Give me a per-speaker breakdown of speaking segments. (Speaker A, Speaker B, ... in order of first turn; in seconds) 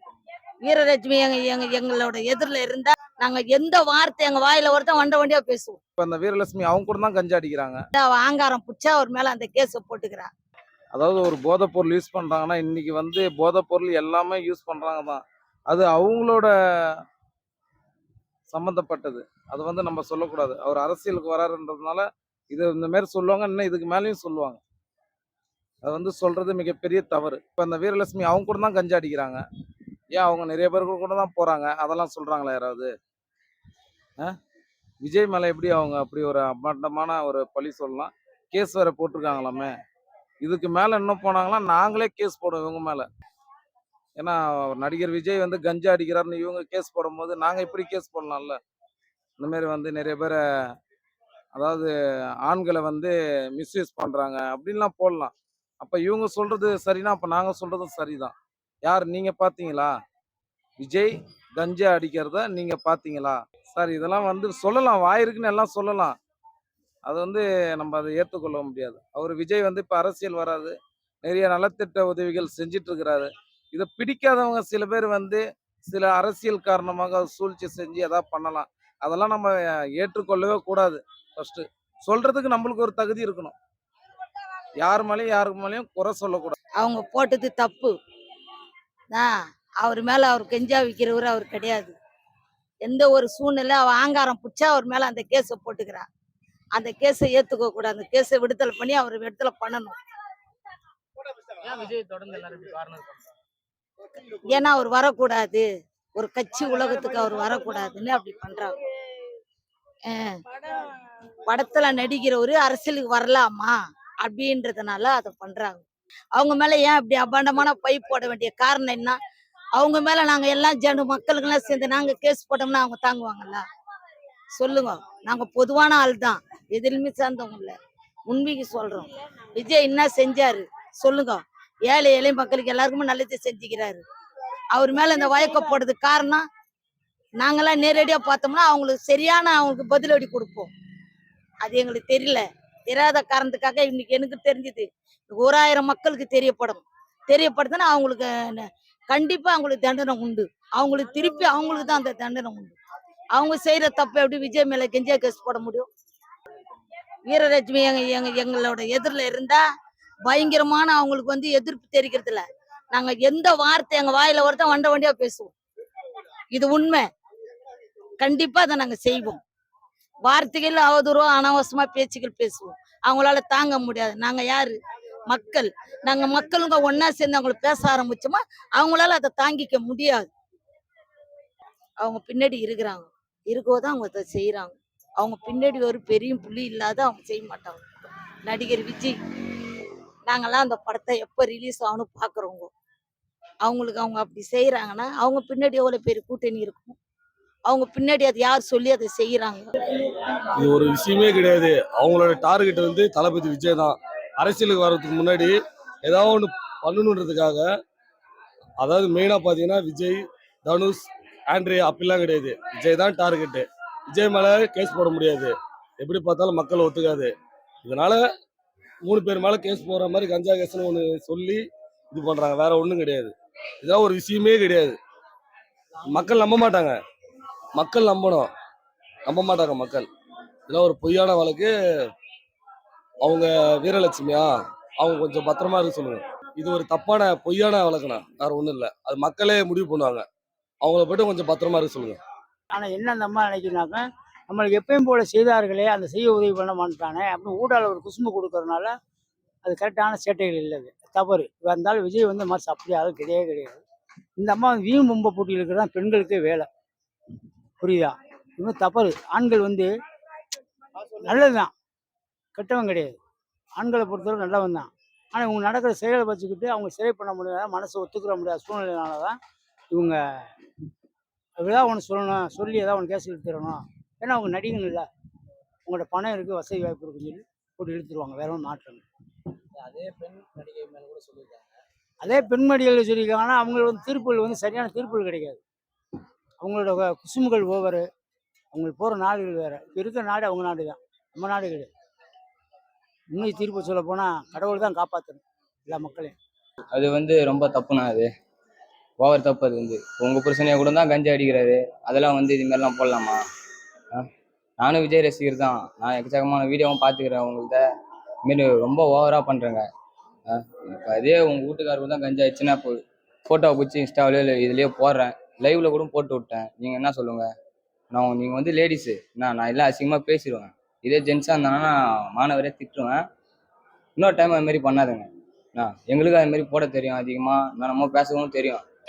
Speaker A: 0.6-5.8, 8.0-10.3, 86.8-87.9, 89.8-92.0, 92.8-96.1, 96.8-100.0, 104.5-105.7, 106.2-108.8, 110.1-110.4, 111.5-115.8, 116.4-119.2, 119.8-123.6, 124.6-127.8, 128.3-134.0, 134.7-136.4, 137.4-140.7, 141.6-152.8, 153.3-155.9, 157.3-159.6, 160.3-165.5, 166.5-167.1, 168.2-169.4, 170.2-174.8, 175.3-180.3, 182.0-189.2, 190.3-192.7, 193.6-197.0, 197.7-199.7
Speaker B: 6.0-7.8, 10.9-17.0, 18.5-24.6, 25.8-29.4, 30.1-32.9, 35.0-39.7, 40.4-43.1, 44.2-48.6, 49.4-50.4, 51.5-51.9, 52.5-59.9, 60.8-66.2, 67.1-83.6, 84.8-86.5
Speaker C: 101.6-103.3, 279.8-281.7
Speaker D: 200.6-207.7, 208.8-217.3, 217.8-218.2, 219.0-225.0, 226.1-227.0, 227.8-228.5, 229.3-230.1, 230.7-231.7, 233.2-240.3, 240.8-242.2
Speaker E: 242.7-248.9, 249.6-253.8, 254.4-256.7, 257.8-259.9, 261.2-261.7, 262.6-263.2, 263.8-269.4, 269.9-270.5, 271.6-275.1, 275.9-279.0, 282.2-285.6, 286.6-288.1, 288.7-291.9, 293.3-296.4
Speaker F: 296.9-298.3, 299.2-303.4, 304.8-307.8, 308.4-309.9, 310.5-317.5, 318.1-323.2, 324.2-328.8